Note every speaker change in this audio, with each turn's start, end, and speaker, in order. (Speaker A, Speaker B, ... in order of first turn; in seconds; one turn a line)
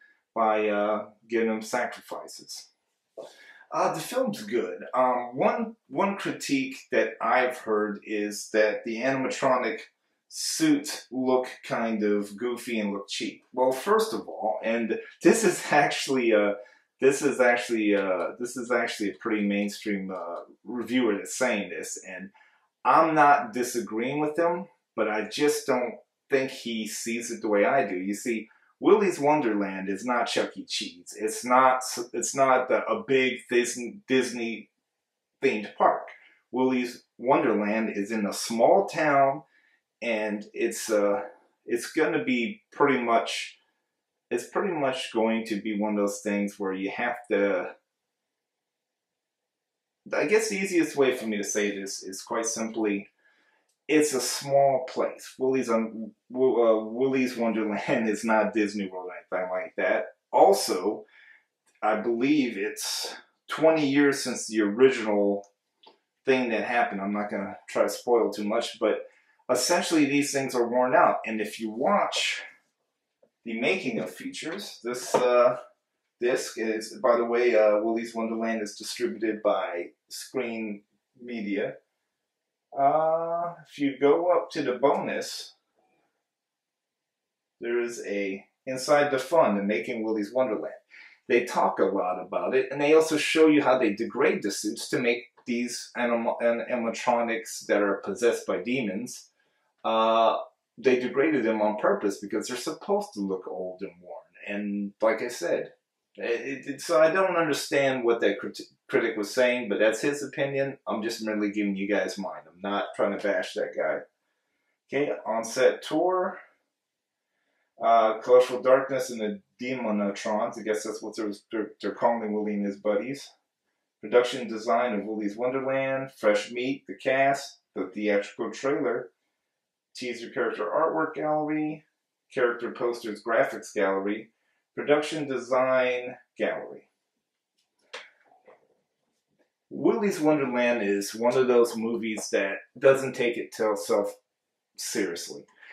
Speaker A: 0.3-2.7
Speaker A: 3.7-22.3
Speaker A: 22.8-34.7
Speaker A: 35.4-39.4
Speaker A: 40.0-43.6
Speaker A: 44.3-47.7
Speaker A: 50.0-53.1
Speaker A: 53.9-61.0
Speaker A: 61.8-65.5
Speaker A: 66.2-72.4
Speaker A: 73.4-75.6
Speaker A: 76.2-81.8
Speaker A: 82.7-85.5
Speaker A: 87.6-99.3
Speaker A: 99.8-114.0
Speaker A: 114.9-116.4
Speaker A: 117.8-123.3
Speaker A: 124.0-129.1
Speaker A: 129.9-136.9
Speaker A: 139.7-144.2
Speaker A: 144.8-145.5